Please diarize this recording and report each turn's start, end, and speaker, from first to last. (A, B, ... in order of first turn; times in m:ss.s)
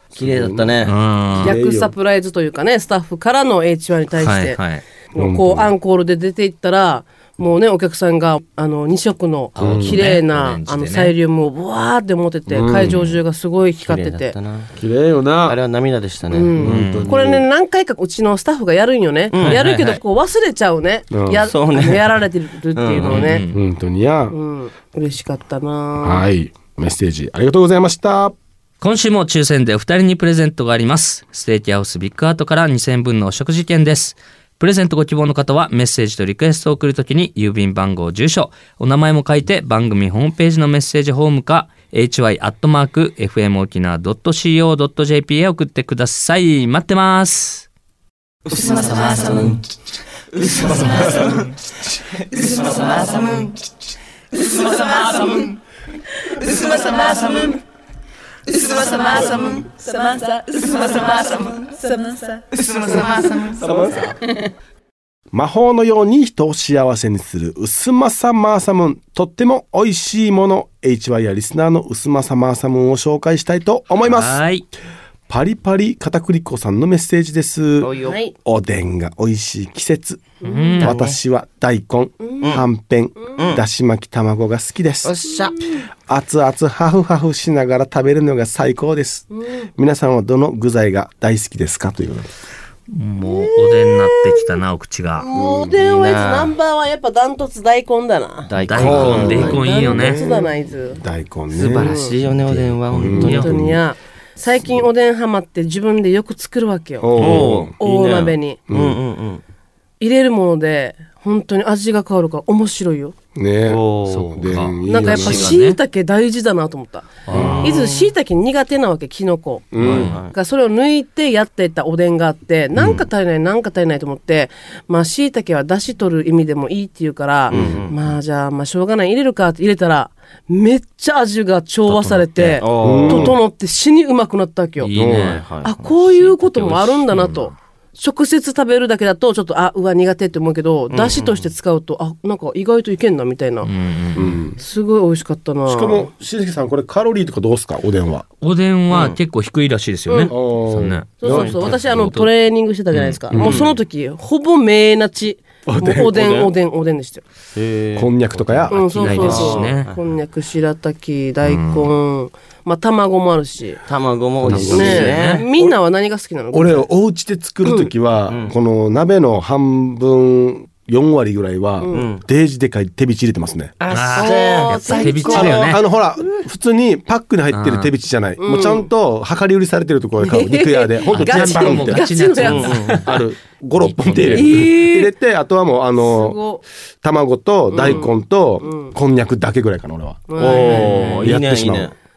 0:00.1-0:00.8 A
0:00.2-0:00.9 B
0:00.8-0:01.6 C
0:01.3-0:01.9 A
0:01.4-0:04.6 D
0:04.2-0:04.8 C
0:05.1-0:14.4 D
0:05.1-0:05.7 A
0:09.6-0:11.2 C
0:09.6-0:10.0 A
0:12.5-0:13.2 A
0:13.8-0:14.8 B
0:14.8-0:15.6 A
0:15.4-0:16.5 B
0:16.3-0:23.4 D
0:16.6-0:17.5 A
0:16.6-0:17.2 C
0:19.3-0:19.6 B
0:19.4-0:20.0 C
0:21.1-0:21.5 A
0:21.4-0:22.2 B
0:22.7-0:23.3 B
0:23.0-0:23.6 C
0:23.5-0:24.4 A
0:24.3-0:26.3 D
0:26.0-0:28.4 A
0:28.8-0:47.7 C
0:48.5-0:49.6 B
0:50.5-0:51.2 B
0:52.3-0:53.6 B
0:54.6-0:55.5 B
0:56.5-0:57.6 B
0:58.8-0:59.6 B
1:00.1-1:00.6 D
1:00.7-1:01.6 B
1:01.7-1:02.2 D
1:02.5-1:03.6 B
1:03.6-1:04.1 A
1:05.3-1:14.4 A
1:14.0-1:14.7 C
1:15.3-1:25.2 A
1:17.8-1:18.2 B
1:18.1-1:18.3 D
1:20.4-1:20.9 D
1:20.4-1:21.0 C
1:20.8-1:21.2 B
1:23.4-1:23.6 B
1:25.0-1:25.7 B
1:26.1-1:32.3 A
1:29.3-1:29.7 D
1:32.9-1:35.3 C
1:33.3-1:34.6 D
1:35.2-1:41.0 D
1:35.3-1:35.8 A
1:35.8-1:36.5 B
1:38.5-1:39.6 B
1:38.6-1:40.2 C
1:38.7-1:43.8 A
1:41.5-1:43.6 B
1:41.8-1:42.1 D
1:43.2-1:43.5 C
1:43.3-1:47.2 D
1:47.0-1:47.7 A
1:47.2-1:49.4 B
1:47.8-1:48.6 D
1:48.7-1:49.0 A
1:50.0-1:53.2 D
1:53.4-1:55.6 A
1:53.7-1:54.2 B
1:54.0-1:55.8 C
1:54.9-2:14.9 D
1:57.3-1:57.7 C
1:57.3-1:57.7 A
1:57.3-1:58.1 B
1:59.7-2:00.2 A
1:59.8-2:00.2 C
1:59.8-2:00.3 B
2:02.8-2:03.0 A
2:07.5-2:07.8 A
2:07.5-2:08.1 B
2:11.9-2:12.5 C
2:12.4-2:13.4 B
2:12.8-2:13.4 A
2:14.8-2:15.5 C
2:14.9-2:15.4 A
2:15.3-2:16.0 B
2:15.6-2:23.7 D
2:16.0-2:17.5 C
2:20.9-2:21.5 B
2:23.6-2:24.4 C
2:24.2-2:24.6 A
2:24.6-2:26.1 D
2:25.7-2:28.2 A
2:28.4-2:32.3 C
2:28.9-2:29.2 B
2:30.1-2:30.3 D
2:30.3-2:32.1 A
2:31.2-2:37.2 D
2:31.3-2:31.6 B
2:32.9-2:33.2 C
2:33.3-2:33.7 A
2:33.4-2:33.8 B
2:35.7-2:36.2 A
2:36.2-2:36.5 B
2:37.6-2:40.0 B
2:38.0-2:39.5 A
2:38.6-2:39.9 C
2:38.7-2:43.8 D
2:41.4-2:41.9 C
2:43.9-2:45.4 B
2:44.4-2:45.8 A
2:44.5-2:45.4 C
2:44.7-2:46.9 D
2:46.5-2:53.8 A
2:47.6-2:47.9 D
2:48.3-2:48.5 B
2:51.8-2:52.1 D
2:51.9-2:52.2 B
2:53.8-2:55.8 B
2:53.9-2:55.8 C
2:54.1-2:55.5 D
2:55.3-3:02.1 A
2:57.5-2:57.9 C
2:58.4-2:58.9 D
3:00.2-3:02.8 D
3:01.1-3:03.2 C
3:02.4-3:03.1 B
3:03.0-3:06.4 A
3:03.8-3:04.7 C
3:04.3-3:05.1 D
3:06.0-3:06.6 D
3:07.0-3:11.9 A
3:07.7-3:08.9 D
3:10.3-3:11.2 D
3:10.4-3:11.9 B
3:10.5-3:11.4 C